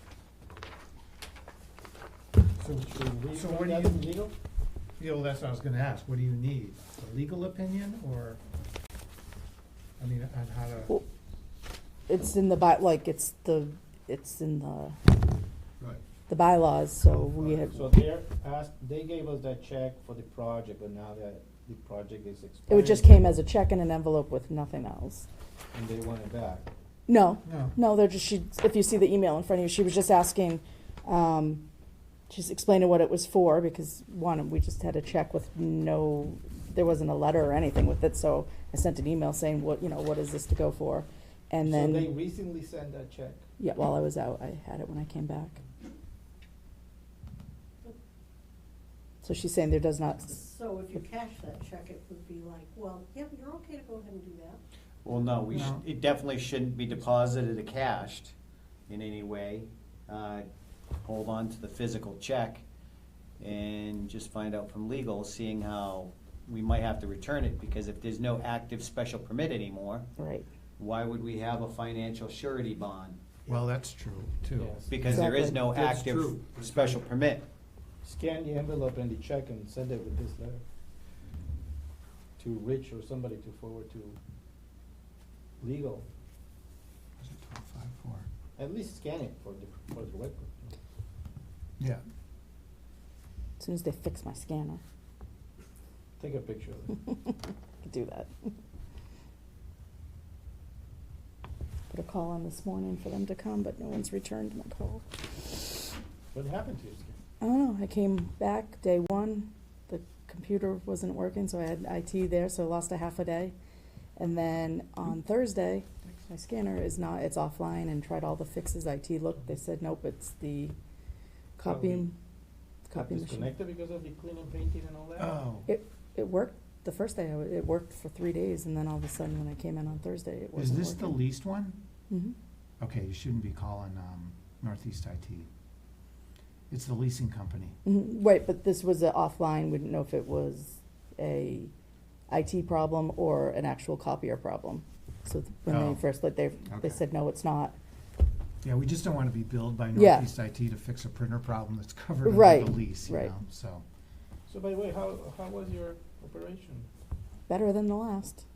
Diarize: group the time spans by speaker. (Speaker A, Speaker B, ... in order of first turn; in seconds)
Speaker A: 2.6-4.1, 5.0-8.4, 10.0-10.9, 27.4-27.8, 55.5-55.8, 73.5-77.0, 87.2-88.3, 125.2-125.7, 130.6-131.8, 132.8-135.5, 136.7-137.8, 145.7-146.1, 146.7-147.0, 148.6-153.8
Speaker B: 2.8-4.3, 17.7-23.4, 25.7-26.7, 41.6-43.4, 74.6-74.9, 78.0-80.6, 82.4-84.2, 85.6-86.1, 88.6-90.7, 96.2-97.0, 106.3-107.2, 121.6-122.1, 122.9-125.4, 154.5-156.9
Speaker C: 12.1-15.1, 16.3-17.8, 22.7-25.3, 27.1-31.7, 32.3-42.1, 43.6-45.6, 49.2-50.4, 70.2-70.5, 75.1-75.6, 93.6-94.8, 97.2-98.5, 101.9-105.0, 107.4-113.5, 114.2-120.7, 121.6-122.1, 122.9-123.5, 125.7-131.3, 132.1-132.4, 137.8-141.7, 142.3-147.8, 149.9-150.3, 152.2-153.3, 157.5-158.4
Speaker D: 50.3-54.6
Speaker E: 55.0-58.3, 58.9-60.5, 61.0-62.6, 63.4-70.1, 70.8-73.2, 74.9-77.5